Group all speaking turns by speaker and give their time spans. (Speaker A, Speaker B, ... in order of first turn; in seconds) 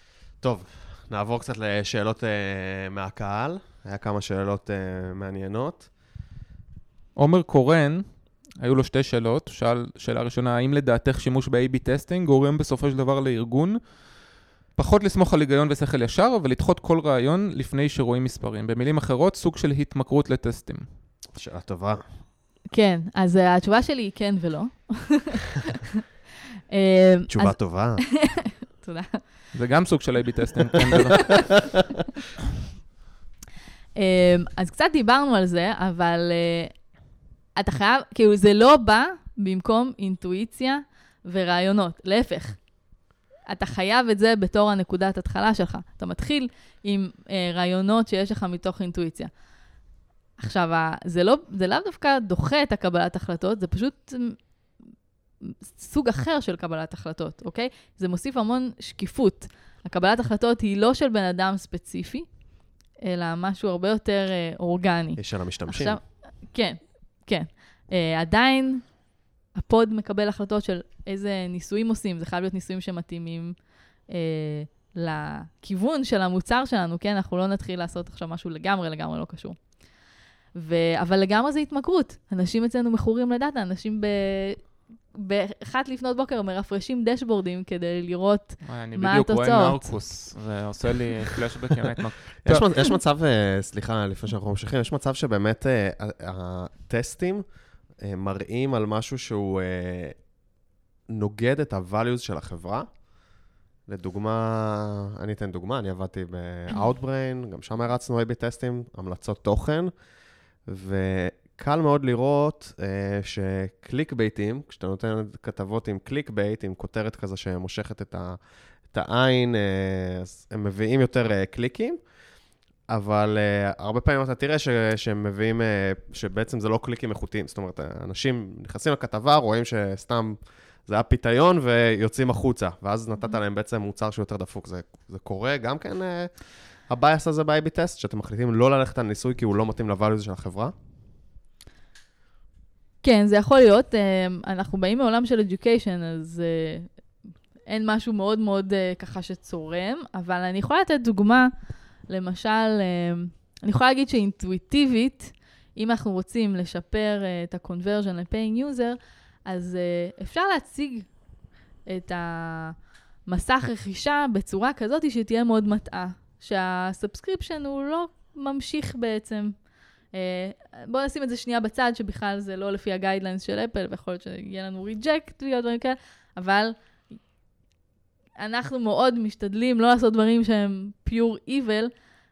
Speaker A: 0.4-5.9, 21.3-22.0, 27.3-28.0, 65.2-66.0, 92.4-97.4, 98.0-100.3, 101.1-103.0, 103.9-109.9, 110.7-118.4, 118.9-122.0, 122.9-140.7
Speaker B: 7.2-8.0, 8.6-13.8, 14.8-20.9, 29.5-31.8, 88.6-92.9
Speaker C: 22.7-25.8, 26.7-29.2, 34.0-36.9, 37.6-42.7, 43.5-49.3, 50.4-54.5, 55.5-62.3, 63.0-69.0, 69.5-73.5, 74.1-79.7, 80.5-90.0, 143.0-146.9, 147.7-151.5, 152.1-161.1, 161.9-169.6, 170.1-176.8, 178.4-181.9